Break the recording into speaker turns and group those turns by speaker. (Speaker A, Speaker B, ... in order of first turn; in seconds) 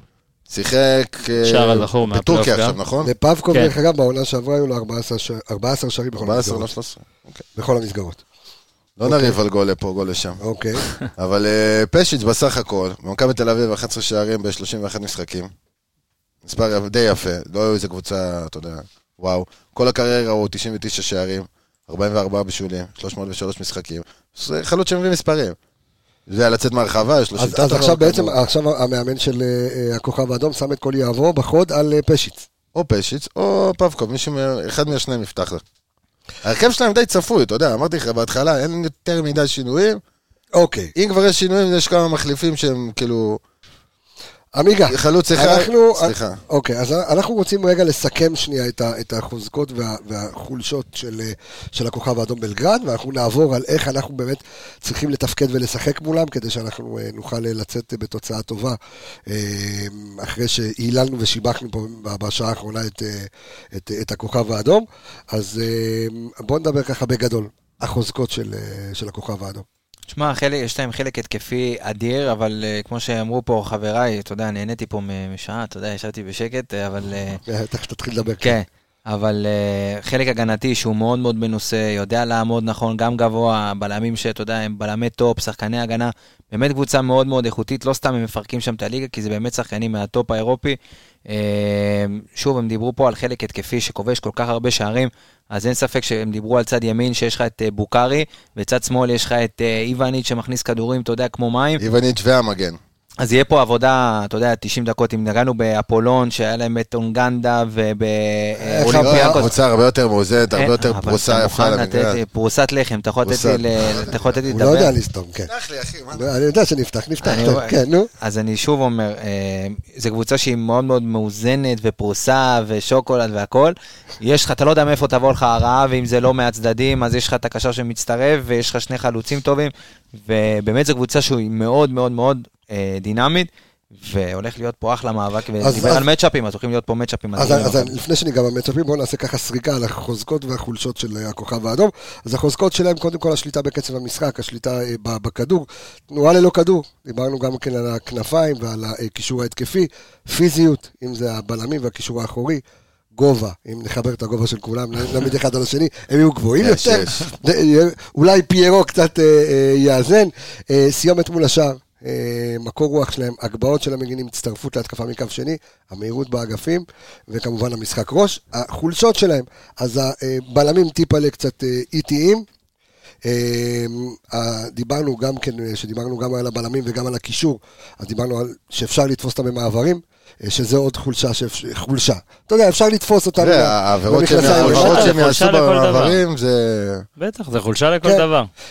Speaker A: 0.5-3.1, 6.2-7.4, 9.0-10.4, 11.2-15.5, 16.4-25.6, 26.3-28.3, 32.7-35.6, 36.4-40.0, 40.9-43.4, 44.9-46.4, 101.8-102.8, 108.9-112.2, 113.2-114.4, 115.5-116.3, 156.6-157.3, 183.4-187.1
Speaker B: 1.4-2.8, 184.4-186.2, 187.2-188.5
Speaker C: 3.0-6.7, 7.5-8.2, 9.0-9.3, 10.4-10.8, 27.4-32.5, 40.5-40.9, 44.5-69.6, 77.5-78.5, 108.6-109.4, 114.5-115.5, 116.1-118.1, 135.6-136.0, 137.3-152.6, 153.1-172.4, 173.2-185.1
Speaker D: 70.1-77.4, 78.4-101.8, 103.2-109.5, 110.5-114.9, 117.2-137.9